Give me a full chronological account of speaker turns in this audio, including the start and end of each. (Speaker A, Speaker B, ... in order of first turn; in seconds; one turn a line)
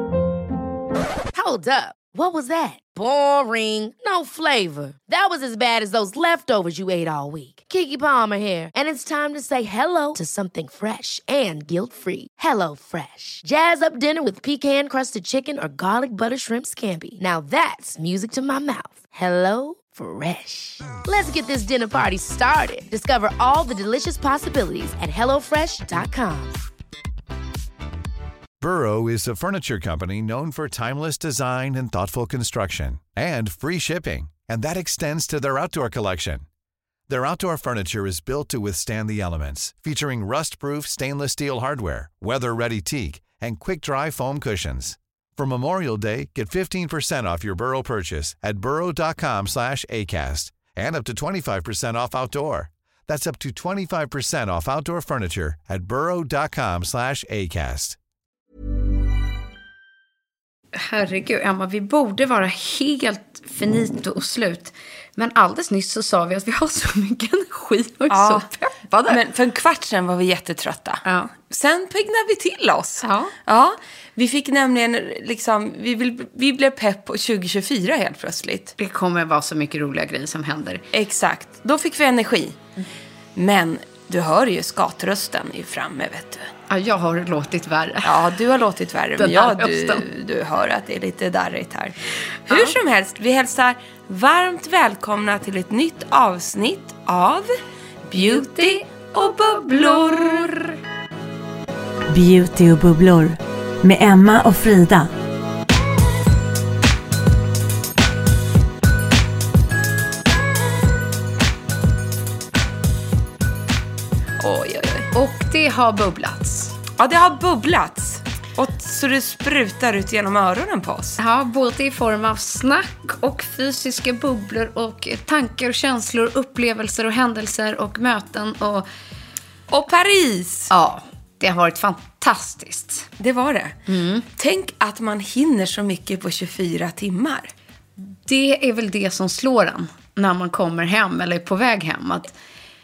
Speaker A: 1.3-26.6
Speaker B: 28.6-36.4
Speaker B: 37.1-58.0
Speaker C: 60.7-69.2
Speaker D: 68.1-68.5
Speaker D: 69.1-78.7
Speaker C: 71.0-71.3
Speaker C: 73.0-73.3
Speaker C: 78.8-80.8
Speaker D: 80.9-82.6
Speaker D: 83.3-86.5
Speaker C: 86.7-88.2
Speaker D: 88.0-92.0
Speaker C: 89.2-90.0
Speaker D: 92.5-97.5
Speaker D: 98.1-100.5
Speaker C: 98.1-98.8
Speaker C: 99.5-100.6
Speaker E: 102.1-105.1
Speaker D: 114.4-115.1
Speaker C: 115.1-116.7
Speaker D: 117.0-121.2
Speaker C: 121.2-128.9
Speaker D: 129.7-130.7
Speaker C: 130.7-133.1
Speaker D: 133.2-133.8
Speaker C: 133.9-134.2
Speaker D: 134.3-137.5
Speaker C: 138.2-142.3